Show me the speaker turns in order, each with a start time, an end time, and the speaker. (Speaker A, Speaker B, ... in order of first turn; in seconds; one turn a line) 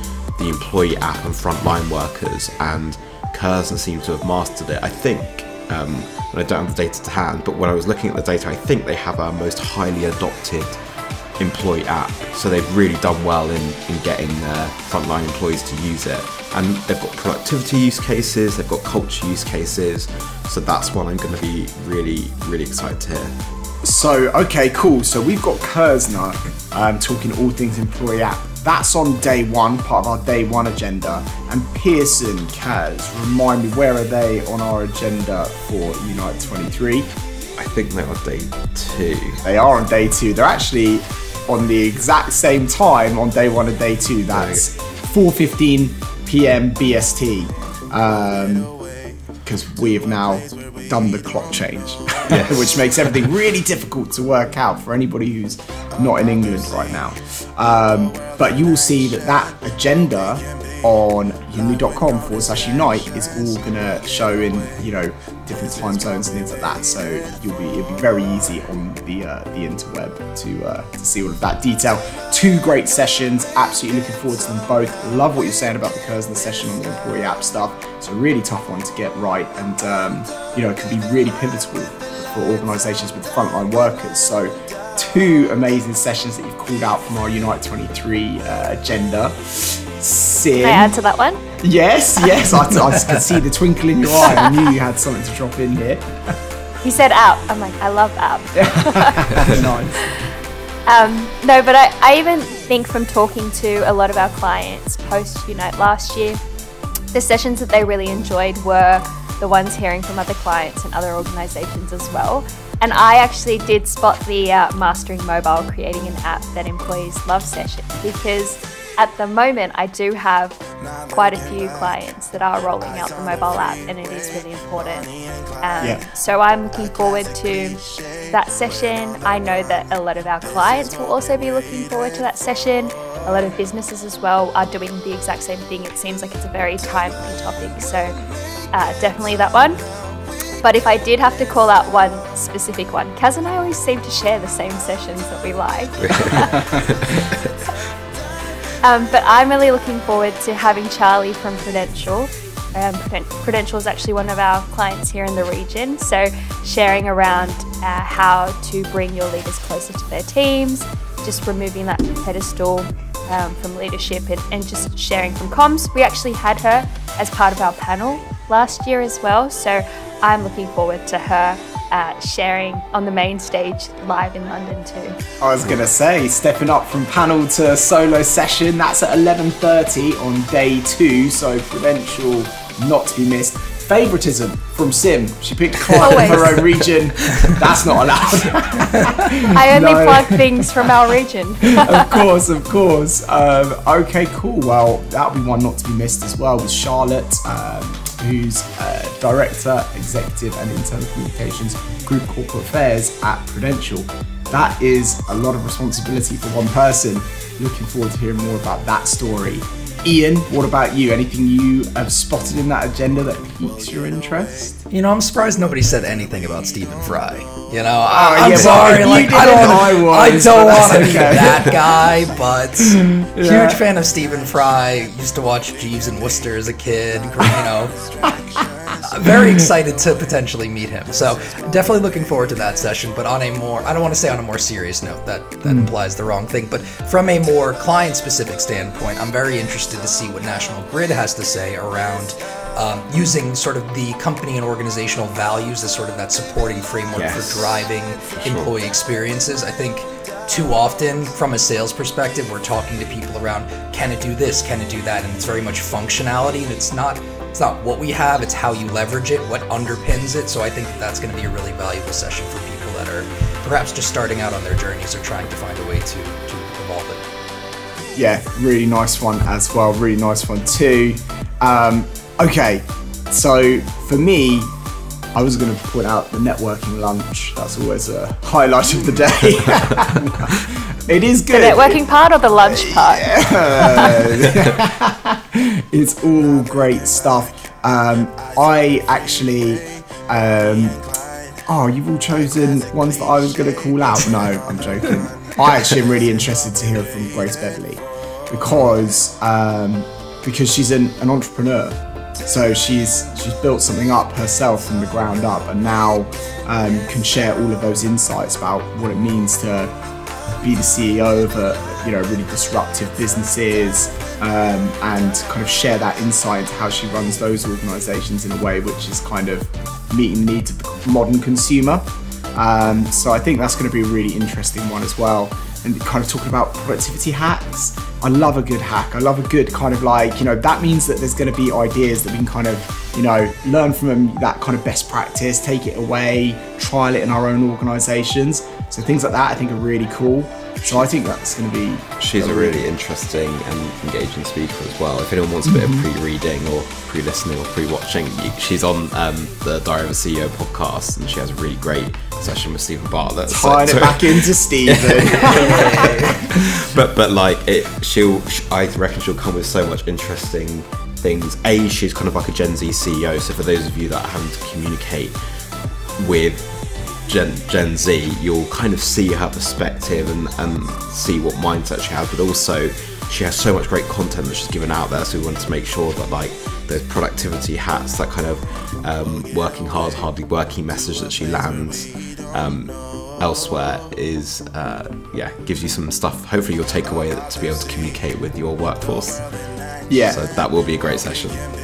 Speaker A: 0.3-10.8
Speaker A: 11.4-23.3
Speaker B: 23.8-37.1
Speaker A: 37.6-39.4
Speaker B: 39.4-48.7
Speaker A: 44.3-44.6
Speaker B: 49.4-91.0
Speaker A: 52.3-53.3
Speaker C: 90.6-91.4
Speaker B: 91.6-96.1
Speaker C: 96.8-99.6
Speaker B: 98.5-100.1
Speaker C: 100.9-106.4
Speaker C: 107.1-138.1
Speaker C: 138.7-139.8
Speaker C: 140.6-146.7
Speaker A: 146.0-147.7
Speaker C: 148.8-175.2
Speaker B: 175.4-190.7
Speaker C: 185.9-186.7
Speaker C: 189.4-192.2
Speaker B: 191.6-214.8
Speaker D: 214.9-228.0
Speaker B: 218.1-221.8
Speaker B: 222.9-223.8
Speaker B: 228.6-229.4
Speaker D: 229.0-267.2
Speaker B: 235.6-235.9
Speaker A: 247.1-248.7
Speaker B: 268.1-274.7
Speaker B: 275.3-282.0
Speaker C: 281.5-284.3
Speaker B: 282.6-291.0
Speaker B: 291.7-309.9
Speaker B: 310.6-342.8
Speaker A: 342.2-365.3
Speaker B: 345.7-346.0
Speaker B: 353.5-356.9
Speaker D: 355.4-356.3
Speaker A: 366.2-366.7
Speaker A: 367.3-389.5
Speaker B: 390.1-390.4
Speaker A: 390.1-391.7